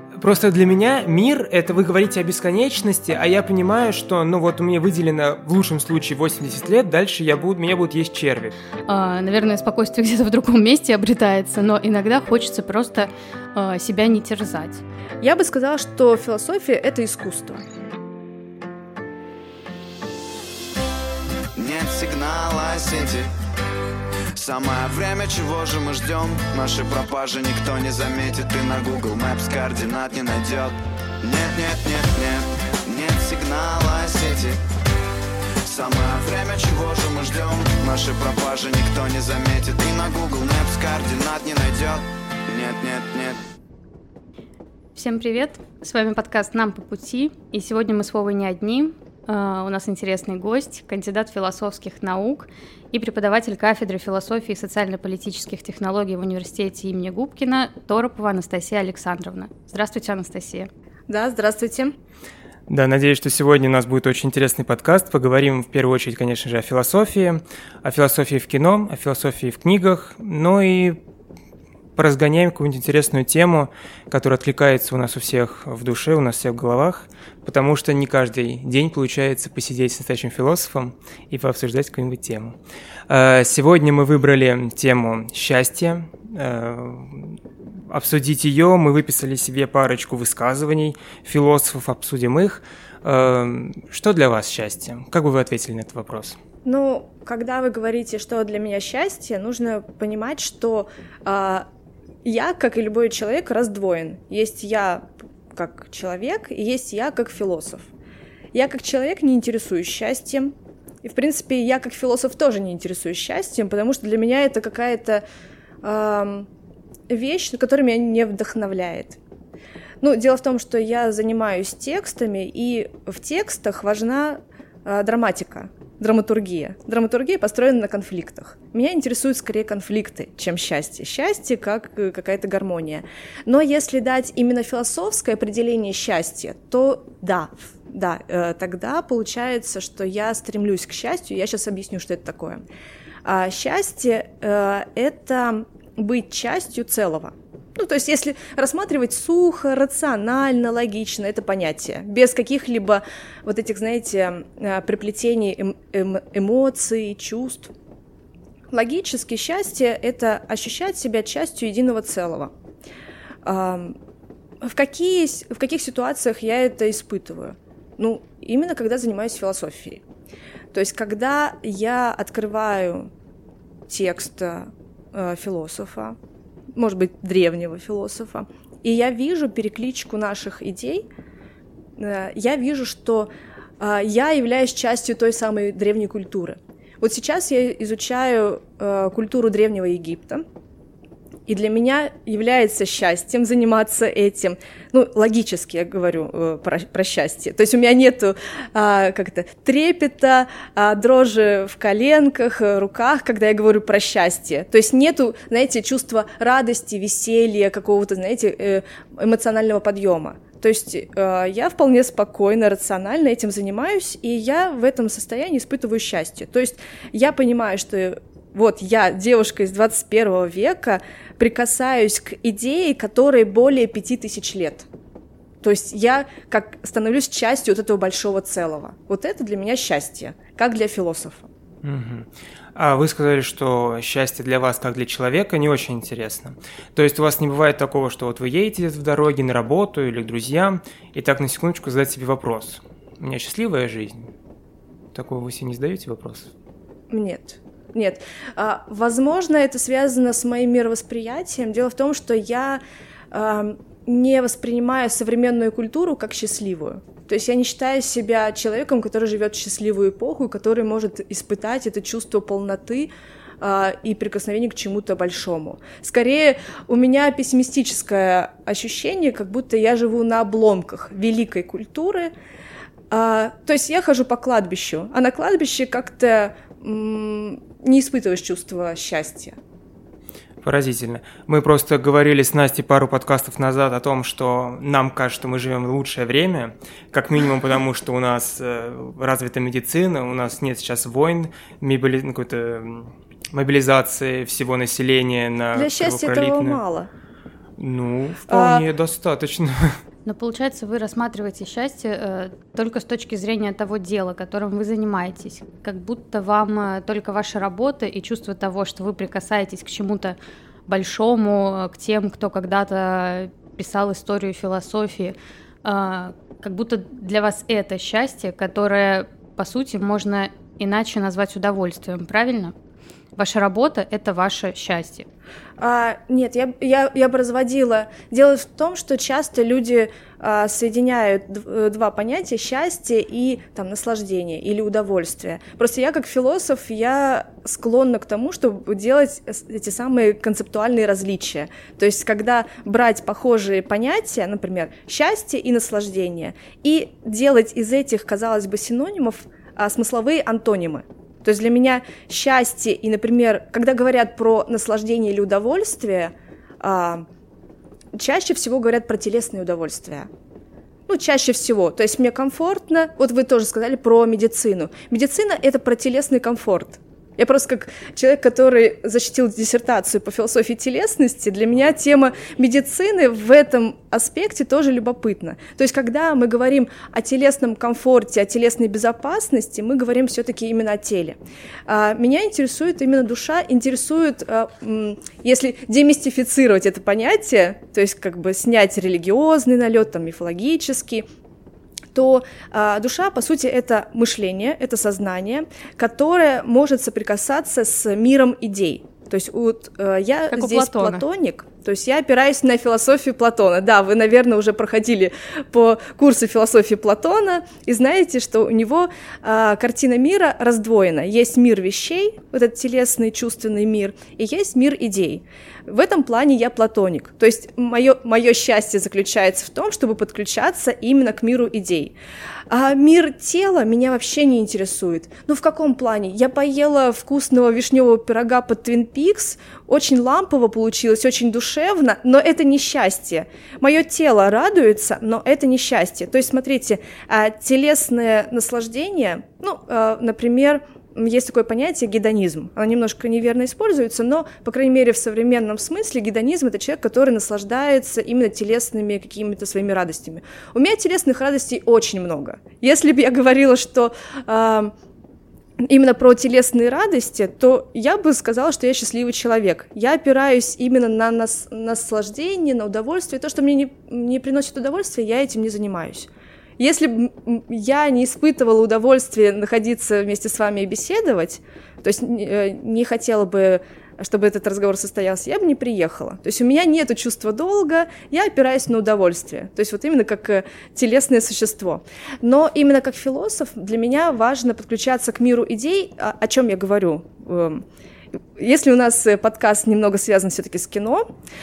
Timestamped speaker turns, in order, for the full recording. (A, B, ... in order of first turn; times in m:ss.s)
0:00.2-0:08.6 A
0:08.9-0:14.8 B
0:15.2-0:17.6 C
0:21.6-0:23.3 D
0:24.4-0:34.6 D
0:35.6-0:43.4 D
0:45.0-1:00.7 B
1:01.1-1:02.0 C
1:02.7-1:11.0 A
1:12.0-1:22.6 A
1:23.1-1:36.4 A
1:36.6-1:41.7 C
1:42.2-1:47.9 C
1:48.5-1:55.2 C
1:55.8-1:56.5 C
1:57.1-1:59.2 C
2:00.0-2:22.6 C
2:23.2-2:37.7 C
2:38.7-2:42.5 C
2:43.4-2:44.0 C
2:44.6-2:50.0 C
2:50.7-2:53.1 C
2:53.9-2:56.2 C
2:56.8-3:01.1 C
3:02.0-3:10.4 C
3:11.5-3:44.9 C
3:45.6-3:51.5 C
3:51.8-4:04.3 A
4:05.1-4:06.5 A
4:07.1-4:12.8 C
4:13.3-4:23.1 C
4:23.6-4:32.3 C
4:33.1-4:39.6 C
4:40.6-4:56.8 A
4:55.7-4:57.1 C
4:57.8-5:00.0 A
4:58.5-4:58.9 C
5:00.2-5:22.7 B
5:23.4-5:25.3 B
5:25.8-5:57.3 C
5:58.1-6:00.3 C
6:01.1-6:31.3 C
6:32.1-7:02.2 C
6:40.5-6:41.2 B
7:02.7-7:34.9 C
7:35.8-8:07.8 C
8:08.4-8:11.3 C